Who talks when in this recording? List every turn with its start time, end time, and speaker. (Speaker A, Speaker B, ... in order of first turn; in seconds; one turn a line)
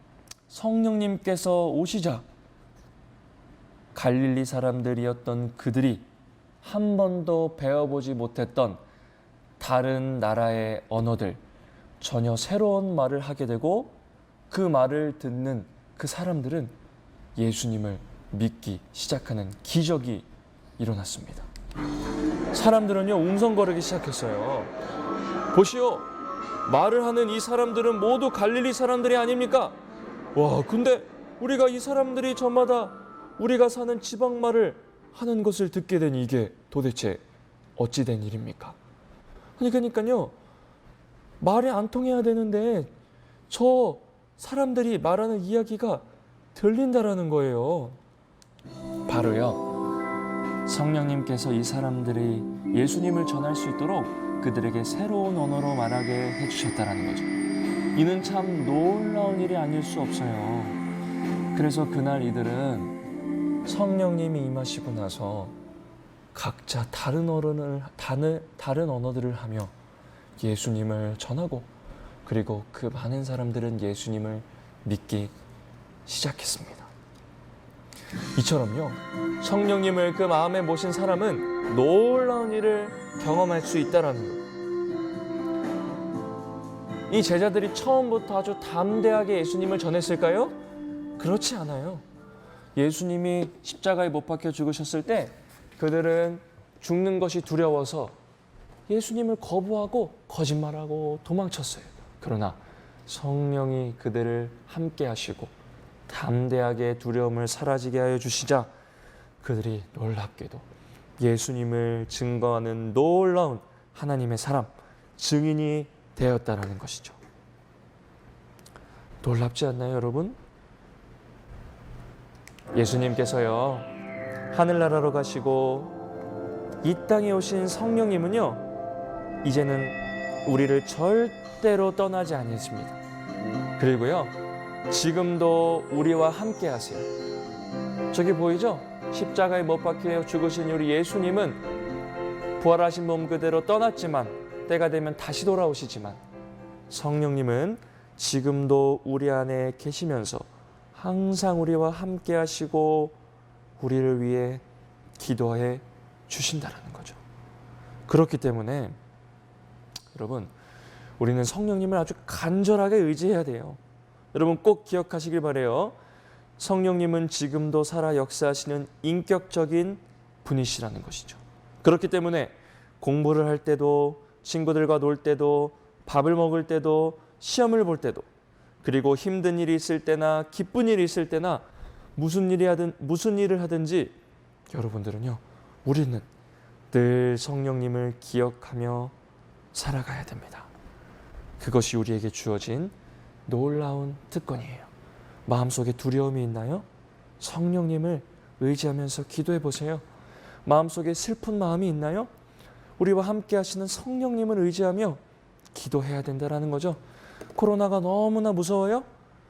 Speaker A: 0.5-2.2
Speaker A: 3.9-6.0
Speaker A: 6.6-8.8
Speaker A: 9.6-11.4
Speaker A: 12.0-14.0
Speaker A: 14.5-16.7
Speaker A: 17.4-20.3
Speaker A: 20.8-21.5
Speaker A: 22.5-24.7
Speaker A: 25.5-26.1
Speaker A: 26.6-29.8
Speaker A: 30.3-37.2
Speaker A: 37.8-38.8
Speaker A: 39.6-40.3
Speaker A: 41.4-42.9
Speaker A: 43.5-46.0
Speaker A: 46.5-48.0
Speaker A: 49.1-49.7
Speaker A: 50.6-57.3
Speaker A: 57.9-60.8
Speaker A: 61.5-63.0
Speaker A: 63.6-65.5
Speaker A: 66.3-69.7
Speaker A: 70.4-71.7
Speaker A: 72.2-75.3
Speaker A: 76.0-76.9
Speaker A: 78.3-84.4
Speaker A: 87.1-90.5
Speaker A: 91.2-92.0
Speaker A: 92.8-98.1
Speaker A: 98.9-105.5
Speaker A: 106.1-108.7
Speaker A: 109.4-110.6
Speaker A: 111.2-117.2
Speaker A: 119.2-120.4
Speaker A: 122.7-123.9
Speaker A: 124.5-125.9
Speaker A: 126.8-128.6
Speaker A: 129.4-133.0
Speaker A: 133.8-134.3
Speaker A: 134.9-137.1
Speaker A: 138.1-141.6
Speaker A: 142.6-146.2
Speaker A: 146.9-153.2
Speaker A: 153.8-154.6
Speaker A: 155.2-157.2
Speaker A: 158.1-159.0
Speaker A: 160.1-160.5
Speaker A: 161.2-163.8
Speaker A: 164.3-165.9
Speaker A: 166.6-178.2
Speaker A: 178.8-181.6
Speaker A: 182.2-184.2
Speaker A: 184.7-186.3
Speaker A: 186.9-189.1
Speaker A: 189.7-190.7
Speaker A: 191.6-192.9
Speaker A: 193.5-194.9
Speaker A: 195.4-196.8
Speaker A: 197.4-200.0
Speaker A: 200.6-202.3
Speaker A: 203.0-205.2
Speaker A: 205.7-207.0
Speaker A: 207.5-209.1